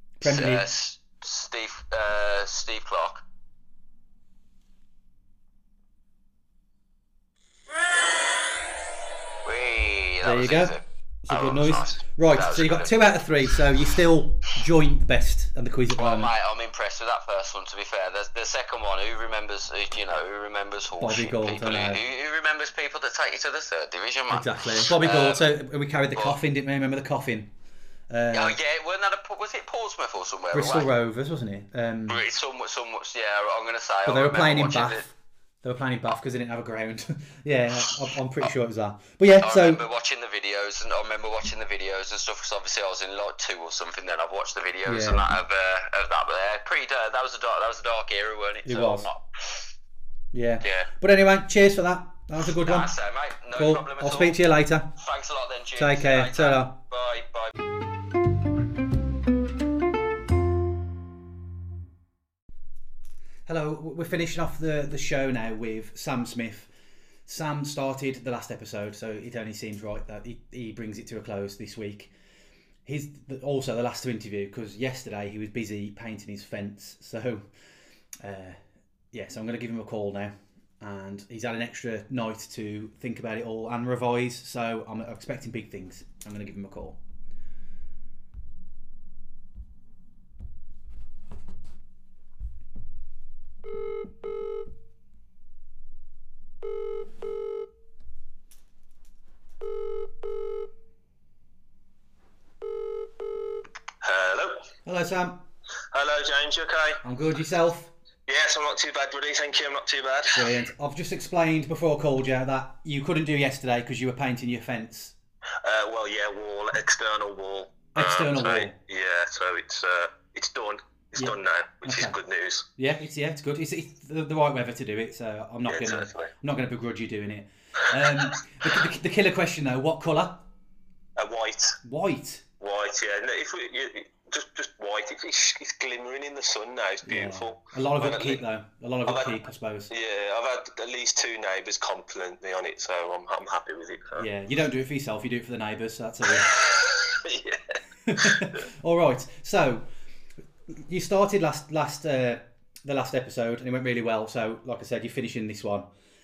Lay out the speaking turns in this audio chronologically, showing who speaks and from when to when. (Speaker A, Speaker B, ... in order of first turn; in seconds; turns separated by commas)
Speaker A: 0.2-0.7, Speaker B: 0.2-3.2, Speaker B: 9.4-13.0, Speaker A: 10.2-16.3, Speaker B: 15.9-25.5, Speaker A: 21.0-22.0, Speaker A: 24.3-27.5, Speaker A: 28.1-28.6, Speaker B: 28.3-30.9, Speaker A: 30.5-32.2, Speaker B: 32.1-35.0, Speaker A: 34.1-39.8, Speaker B: 39.4-49.7, Speaker A: 44.9-45.3, Speaker A: 48.6-49.1, Speaker A: 50.3-52.9, Speaker B: 50.6-50.9, Speaker B: 52.6-54.4, Speaker A: 53.5-54.9, Speaker B: 55.0-57.5, Speaker A: 55.8-56.8, Speaker A: 63.5-66.7, Speaker A: 67.3-72.1, Speaker A: 72.9-77.5, Speaker A: 78.2-78.6, Speaker A: 79.1-87.0, Speaker C: 104.0-104.7, Speaker A: 104.9-105.5, Speaker C: 105.9-107.0, Speaker A: 107.0-107.9, Speaker C: 108.3-110.5, Speaker A: 110.3-115.2, Speaker C: 115.6-122.7, Speaker A: 118.0-118.8, Speaker A: 121.2-122.2, Speaker A: 122.8-130.4, Speaker C: 125.7-126.3, Speaker C: 131.2-131.8, Speaker A: 131.8-132.4, Speaker C: 132.6-138.4, Speaker A: 137.1-139.9, Speaker C: 139.1-139.4, Speaker C: 139.9-144.3, Speaker A: 144.2-146.5, Speaker C: 146.3-148.4, Speaker A: 148.1-149.9, Speaker A: 150.8-155.9